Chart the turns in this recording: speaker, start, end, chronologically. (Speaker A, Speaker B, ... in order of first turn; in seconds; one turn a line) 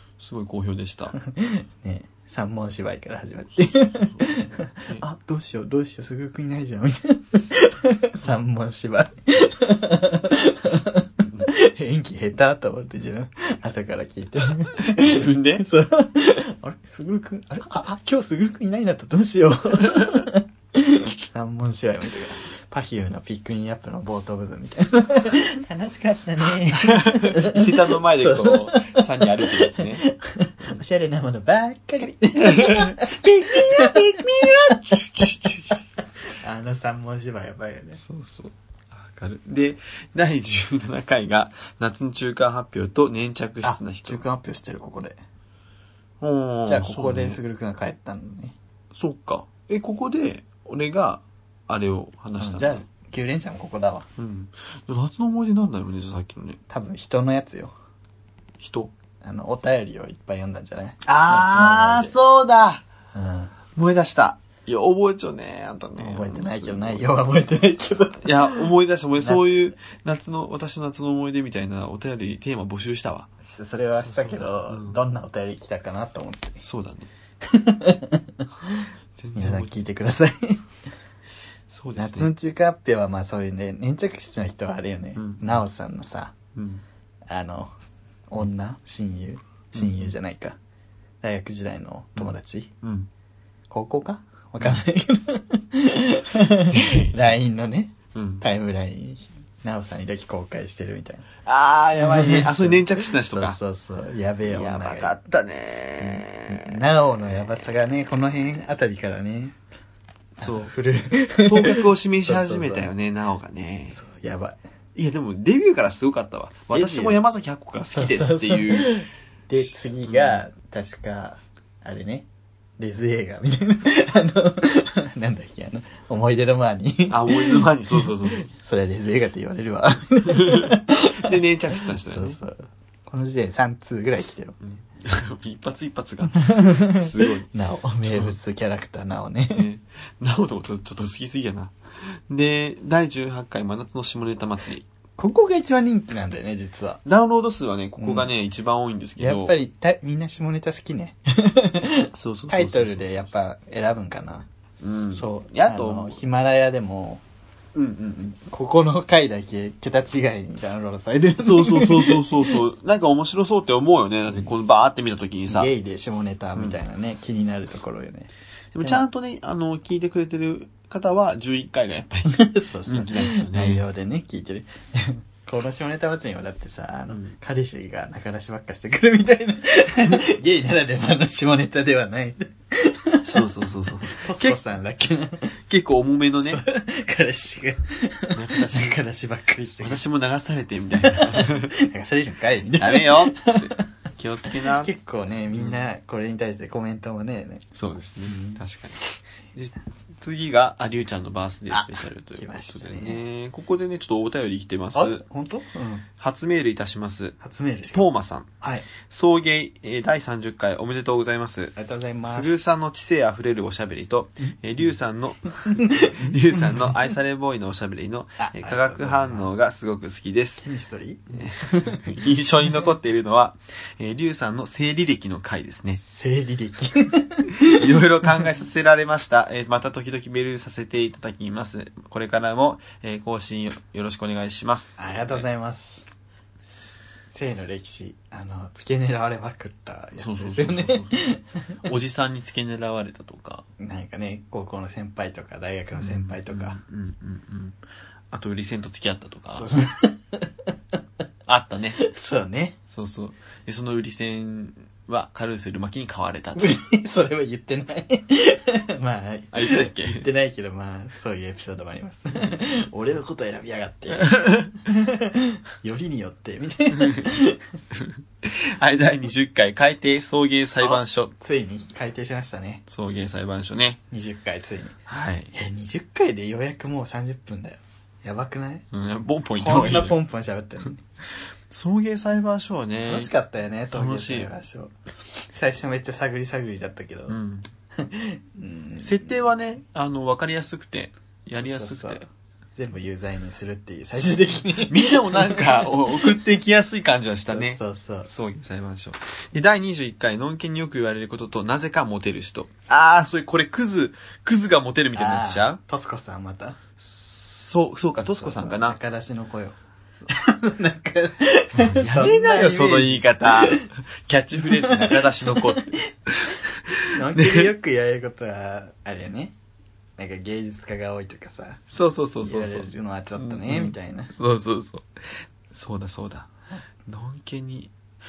Speaker A: 0.2-1.1
Speaker B: 1.2-35.3
Speaker A: 3.9-5.0
Speaker A: 14.8-15.7
Speaker A: 26.8-30.0
Speaker A: 32.3-35.8
Speaker B: 36.4-38.0
Speaker A: 37.9-44.2
Speaker B: 43.6-45.2
Speaker A: 46.2-47.4
Speaker B: 46.6-48.5
Speaker A: 48.9-52.8
Speaker B: 52.4-54.1
Speaker A: 54.2-56.6
Speaker B: 56.7-57.7
Speaker A: 58.6-58.9
Speaker B: 59.2-62.1
Speaker A: 61.0-62.8
Speaker B: 63.1-63.5
Speaker A: 63.8-67.0
Speaker B: 66.0-69.6
Speaker A: 68.2-73.3
Speaker B: 73.4-76.6
Speaker A: 73.9-75.0
Speaker A: 76.6-77.1
Speaker B: 77.4-78.7
Speaker A: 79.1-79.7
Speaker B: 79.3-80.7
Speaker A: 81.7-82.3
Speaker B: 82.0-86.3
Speaker A: 85.2-85.6
Speaker A: 86.5-86.8
Speaker B: 87.3-87.7
Speaker B: 88.3-90.6
Speaker A: 89.7-90.1
Speaker B: 91.2-92.7
Speaker A: 92.2-93.1
Speaker B: 93.7-101.3
Speaker A: 96.7-97.2
Speaker A: 98.1-98.4
Speaker A: 101.4-103.6
Speaker B: 102.0-105.1
Speaker A: 104.5-106.8
Speaker B: 106.0-109.6
Speaker A: 110.4-110.7
Speaker B: 110.4-112.9
Speaker A: 111.4-114.0
Speaker B: 113.9-114.6
Speaker A: 114.9-119.0
Speaker B: 116.7-117.2
Speaker B: 117.9-122.3
Speaker A: 119.6-120.4
Speaker B: 122.8-134.6
Speaker A: 127.1-128.5
Speaker A: 130.3-132.4
Speaker A: 134.6-137.5
Speaker B: 136.3-139.7
Speaker A: 138.0-138.3
Speaker A: 139.5-144.8
Speaker B: 145.2-147.0
Speaker A: 147.0-149.5
Speaker B: 148.0-148.3
Speaker B: 149.2-154.5
Speaker A: 152.1-153.2
Speaker A: 154.8-156.2
Speaker B: 155.1-157.2
Speaker A: 157.7-158.4
Speaker B: 158.5-162.6
Speaker A: 161.4-165.7
Speaker B: 165.5-168.3
Speaker A: 168.7-173.8
Speaker B: 172.3-183.5
Speaker A: 177.1-177.3
Speaker A: 183.2-184.6
Speaker B: 184.1-185.5
Speaker A: 185.7-186.6
Speaker B: 186.4-190.0
Speaker A: 188.3-189.0
Speaker A: 189.8-191.7
Speaker B: 191.0-193.8
Speaker A: 192.8-194.9
Speaker B: 194.6-197.7
Speaker A: 195.5-195.8
Speaker A: 197.7-205.2
Speaker B: 198.2-198.6
Speaker B: 201.7-203.2
Speaker B: 204.9-206.1
Speaker A: 206.2-207.4
Speaker B: 207.4-208.0
Speaker A: 207.9-220.6
Speaker B: 208.6-208.9
Speaker B: 211.8-212.5
Speaker B: 215.6-217.1
Speaker B: 218.4-219.5
Speaker B: 220.6-222.0
Speaker A: 221.3-226.0
Speaker B: 226.0-228.4
Speaker A: 227.5-235.4
Speaker B: 235.0-236.1
Speaker B: 237.3-241.8
Speaker A: 240.2-241.3
Speaker A: 241.8-243.6
Speaker B: 243.8-246.8
Speaker A: 245.9-247.8
Speaker A: 248.3-249.7
Speaker B: 249.5-250.7
Speaker A: 251.4-252.0
Speaker B: 252.0-252.8
Speaker A: 252.9-256.8
Speaker B: 256.6-267.6
Speaker A: 259.5-260.3
Speaker A: 264.1-264.7
Speaker A: 266.9-267.3
Speaker A: 267.9-271.3
Speaker B: 270.8-272.8
Speaker A: 272.9-274.0
Speaker B: 274.1-275.0
Speaker A: 275.1-275.5
Speaker B: 275.5-278.9
Speaker A: 278.9-280.1
Speaker B: 279.6-281.0
Speaker A: 281.7-283.3
Speaker B: 283.0-287.4
Speaker A: 283.9-284.5
Speaker A: 287.3-287.7
Speaker B: 287.9-289.3
Speaker A: 289.0-292.2
Speaker B: 291.6-292.2
Speaker B: 292.7-296.3
Speaker A: 294.8-305.8
Speaker B: 297.5-298.3
Speaker B: 305.1-306.8
Speaker A: 307.0-309.0
Speaker B: 308.2-313.9
Speaker A: 311.7-317.7
Speaker B: 314.6-315.9
Speaker B: 317.1-319.5
Speaker B: 320.2-321.8
Speaker A: 321.9-326.5
Speaker B: 322.4-324.3
Speaker A: 327.0-327.9